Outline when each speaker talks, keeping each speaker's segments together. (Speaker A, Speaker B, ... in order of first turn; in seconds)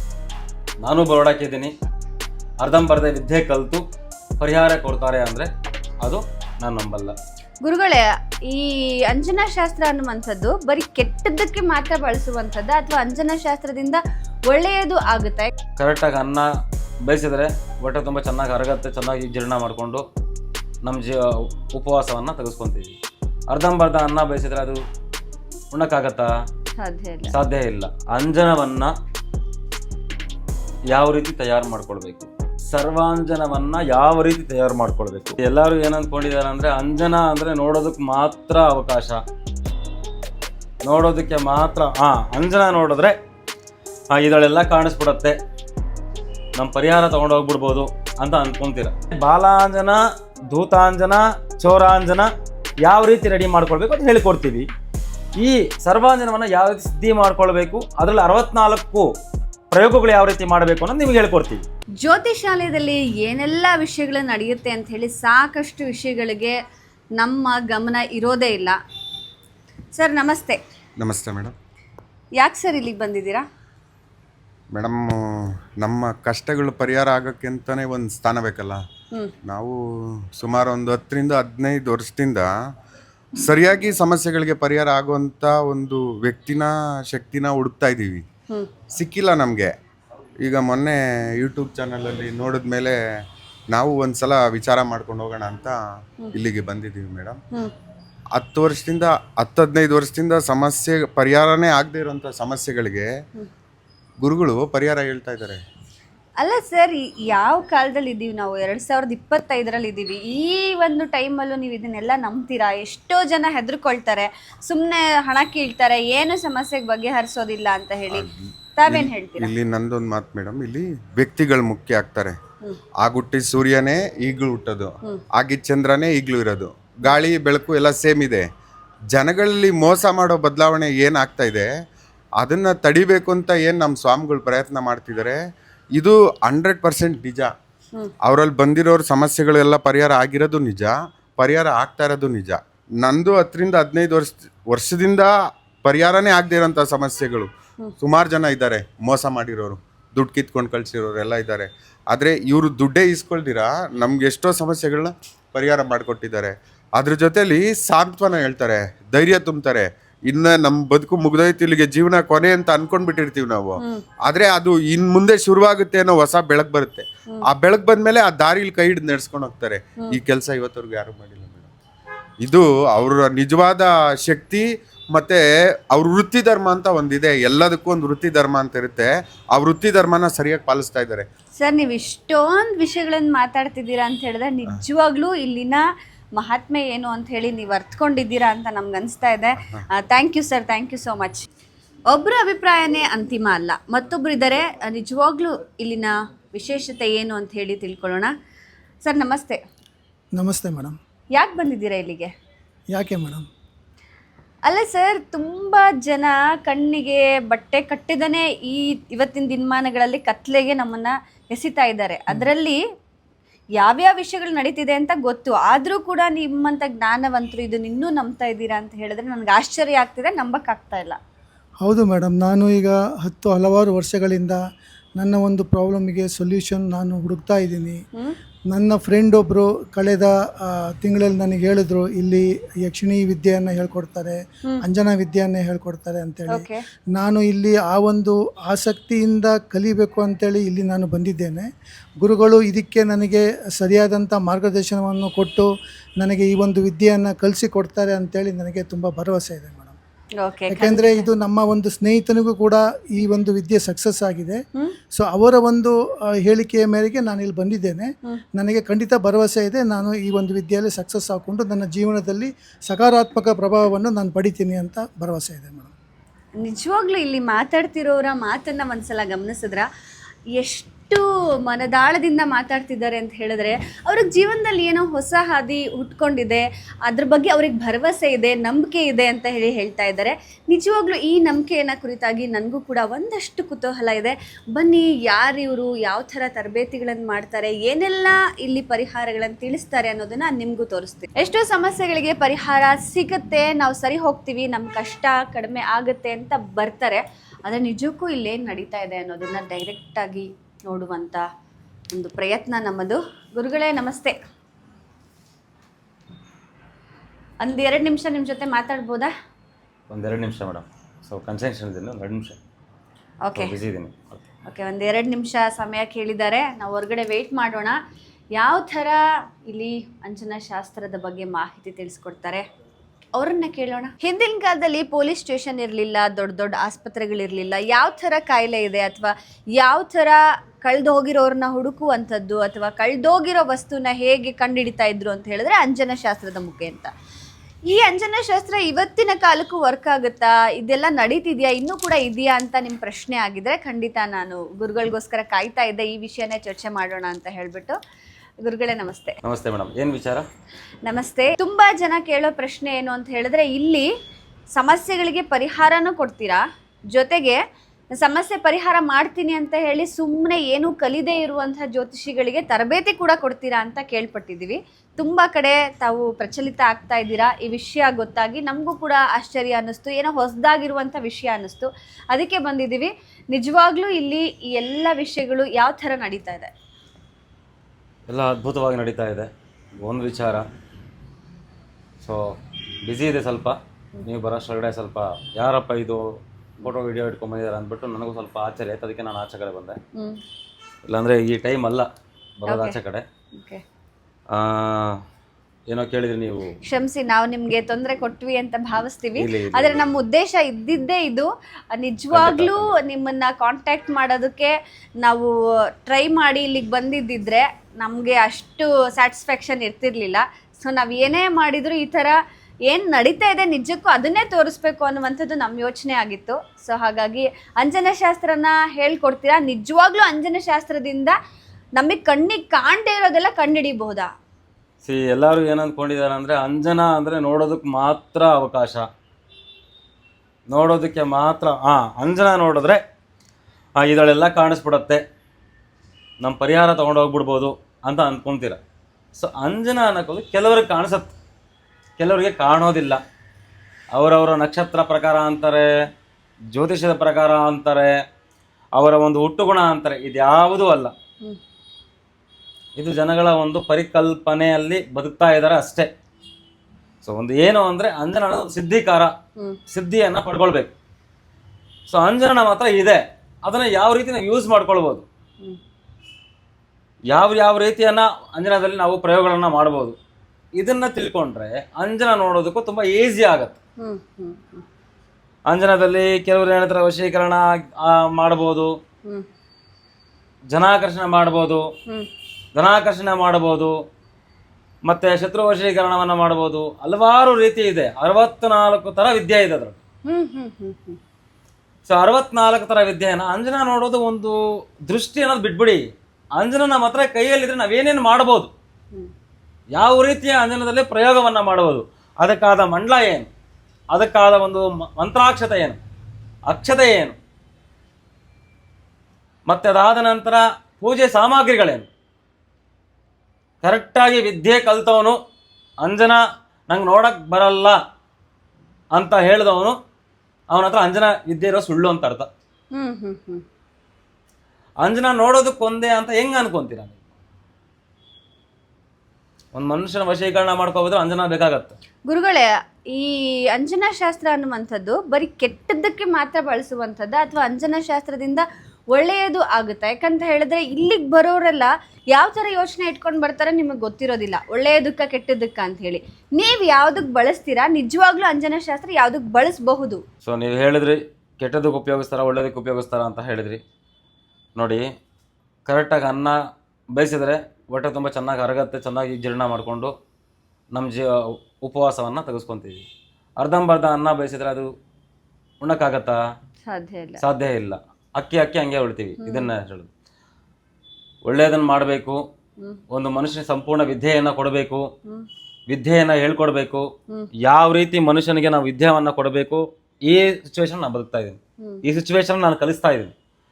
Speaker A: 0.8-1.7, 2.6-3.8, 4.4-5.5, 6.0-7.2, 15.8-16.5, 17.1-20.0, 20.8-23.0, 23.5-24.8, 25.7-26.3, 27.3-28.9, 30.9-39.2, 40.8-43.1, 44.1-45.4, 46.6-52.3, 52.9-54.7, 55.4-59.1, 59.7-61.6, 310.1-312.6, 313.6-314.4, 349.4-350.5, 378.3-380.7, 383.1-386.3, 386.8-390.0, 391.1-393.2, 394.5-395.2, 395.9-396.7, 399.4-400.0, 402.3-402.9, 425.0-429.1, 430.7-433.0, 434.0-435.2, 436.4-438.8, 439.4-441.3, 442.2-443.2, 444.1-445.9, 446.7-448.1, 449.0-451.1, 453.0-456.1, 457.2-459.3, 459.9-460.9, 462.1-465.3, 467.3-470.2, 470.8-473.8, 475.7-478.9, 480.7-481.8, 482.8-483.9, 485.1-490.0, 492.1-496.0, 496.6-498.7, 500.0-503.5, 504.1-506.0, 506.7-507.4, 509.7-512.1, 513.8-515.4, 516.0-518.0, 519.1-520.0, 520.7-522.5, 525.0-527.2, 529.7-532.0, 550.4-553.8, 554.8-555.1, 555.9-556.6, 557.1-560.1, 560.9-563.1, 563.6-564.9, 565.8-566.4, 567.4-570.1, 571.5-572.4, 573.1-575.0, 575.9-577.0, 577.6-583.3
Speaker B: 7.6-15.5, 26.8-27.4, 62.0-66.6, 67.2-68.8, 70.0-70.6, 72.4-73.4, 106.4-119.5, 181.6-185.8, 186.4-191.5, 192.1-198.3, 199.0-199.6, 201.3-202.3, 204.7-212.8, 213.8-221.2, 236.5-236.8, 250.4-251.3, 266.6-269.9, 270.6-301.4, 302.1-304.4, 307.6-309.3, 313.4-313.8, 314.7-318.0, 318.6-322.6, 323.4-337.1, 337.9-348.0, 348.6-349.4, 351.1-354.1, 354.8-356.6, 357.1-357.6, 358.1-376.7, 392.7-393.0, 393.6-393.8, 396.9-405.5, 406.0-412.4, 412.9-421.4, 422.0-424.3, 474.0-474.8, 490.3-491.2, 522.9-523.6, 532.3-550.2, 566.9-567.4, 569.4-569.7
Speaker C: 71.0-71.5, 74.7-78.8, 79.5-79.8, 80.4-82.5, 83.4-88.2, 88.9-89.7, 90.4-93.0, 93.7-95.8, 96.3-97.4, 98.4-103.1, 104.2-105.6, 118.1-122.4, 123.0-128.5, 129.1-131.7, 132.4-135.4, 136.0-137.5, 138.2-145.3, 145.8-147.5, 148.0-171.7, 172.4-181.3
Speaker D: 200.3-201.0, 202.9-203.5, 221.8-224.6, 225.2-228.0, 228.7-241.7, 242.2-245.7, 246.2-250.0, 250.7-254.6, 255.2-265.9